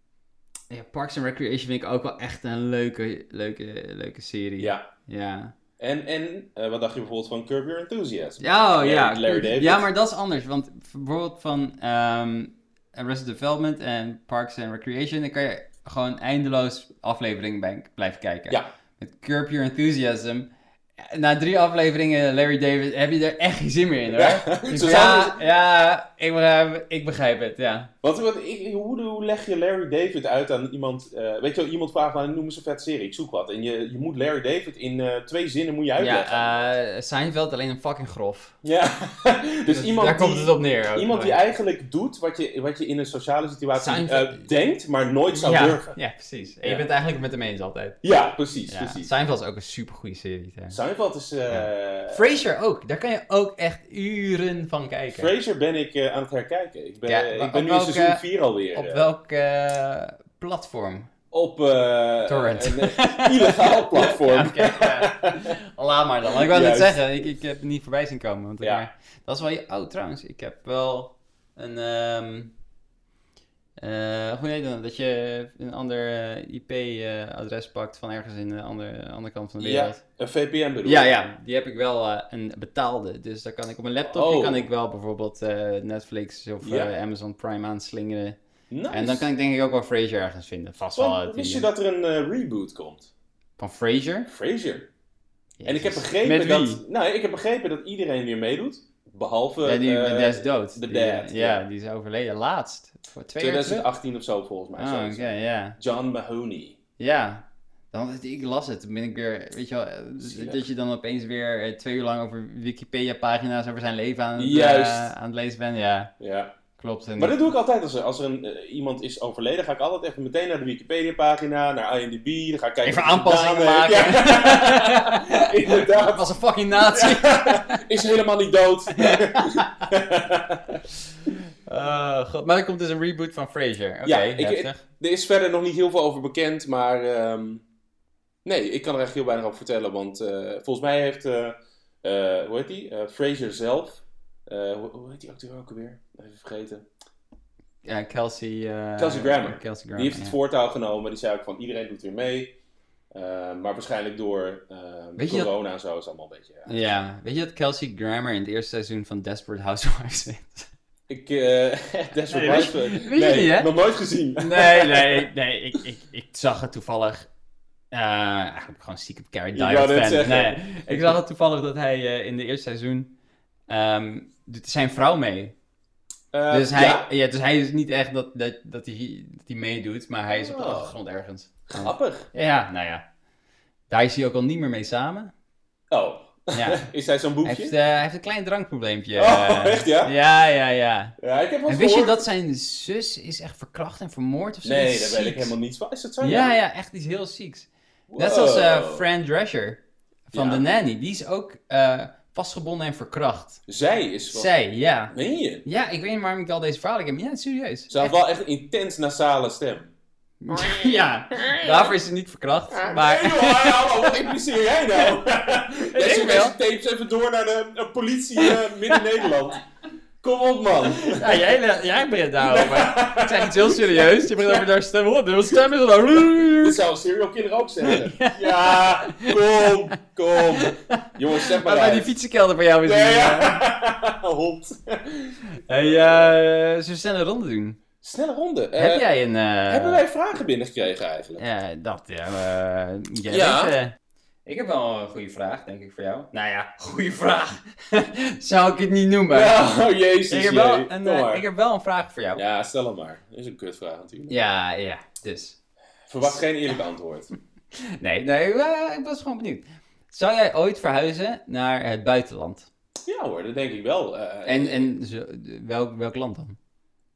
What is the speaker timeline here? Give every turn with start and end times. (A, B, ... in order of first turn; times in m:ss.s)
0:00.7-0:05.6 A
0:04.6-0:04.9 B
0:05.8-0:09.9 B
0:08.4-0:27.9 A
0:24.1-0:25.4 B
0:28.0-0:36.6 B
0:36.0-0:38.6 A
0:38.6-0:46.0 B
0:39.7-0:41.4 A
0:43.8-0:44.5 A
0:45.3-0:48.0 A
0:48.0-0:49.1 B
0:48.7-0:50.8 A
0:50.7-0:52.3 B
0:51.5-0:55.3 A
0:55.1-0:59.1 B
0:57.1-0:58.2 A
0:58.7-1:01.1 A
1:01.3-1:05.6 B
1:02.3-1:12.5 A
1:06.3-1:07.0 B
1:08.6-1:08.9 B
1:13.8-1:20.0 A
1:19.6-1:21.1 B
1:20.9-1:28.4 A
1:24.1-1:24.7 B
1:26.6-1:26.9 B
1:28.7-1:29.3 B
1:28.9-1:31.7 A
1:31.0-1:33.1 B
1:33.6-1:34.3 A
1:34.3-1:34.9 B
1:35.6-1:36.8 A
1:35.6-1:41.6 B
1:39.6-1:43.9 A
1:43.4-1:46.8 B
1:44.8-1:45.8 A
1:47.0-1:56.1 A
1:50.2-1:50.6 B
1:54.4-1:55.1 B
1:56.2-1:56.6 B
1:56.8-1:57.4 A
1:57.2-2:10.8 B
2:02.8-2:07.8 A
2:09.0-2:09.8 A
2:11.2-2:14.8 A
2:14.0-2:17.6 B
2:18.4-2:26.9 B
2:27.8-2:30.4 A
2:29.0-2:32.5 B
2:33.1-2:36.8 B
2:35.2-2:35.5 A
2:36.7-2:40.7 A
2:41.1-2:45.3 B
2:42.3-2:43.7 A
2:44.4-2:47.3 A
2:47.9-2:53.1 A
2:49.5-2:51.1 B
2:53.7-2:55.5 A
2:56.3-2:57.1 B
2:56.5-3:03.1 A
3:00.3-3:00.9 B
3:01.7-3:02.3 B
3:03.9-3:05.3 A
3:05.9-3:07.8 B
3:06.5-3:06.9 A
3:07.4-3:11.2 A
3:09.2-3:10.1 B
3:11.2-3:12.3 B
3:11.7-3:15.5 A
3:14.6-3:16.5 B
3:16.2-3:19.8 A
3:18.1-3:19.1 B
3:20.3-3:20.7 B
3:20.3-3:23.6 A
3:23.7-3:24.5 B
3:24.3-3:25.1 A
3:25.1-3:25.7 B
3:25.6-3:28.1 A
3:27.9-3:29.9 B
3:30.4-3:34.2 A
3:30.5-3:31.9 B
3:32.8-3:39.6 B
3:35.9-3:36.6 A
3:38.4-3:39.2 A
3:40.2-3:41.5 B
3:41.0-3:46.8 A
3:42.4-3:44.6 B
3:46.6-3:52.1 B
3:47.8-3:49.4 A
3:50.4-3:53.6 A
3:52.8-3:56.4 B
3:55.7-3:57.8 A
3:58.0-3:59.0 B
3:58.8-4:00.0 A
3:59.7-4:01.4 B
4:01.4-4:09.6 A
4:03.3-4:03.8 B
4:09.3-4:11.4 B
4:10.3-4:12.4 A
4:12.4-4:14.4 B
4:14.3-4:15.6 A
4:16.1-4:17.3 B
4:16.2-4:16.7 A
4:17.7-4:22.7 A
4:23.1-4:24.9 B
4:24.5-4:26.6 A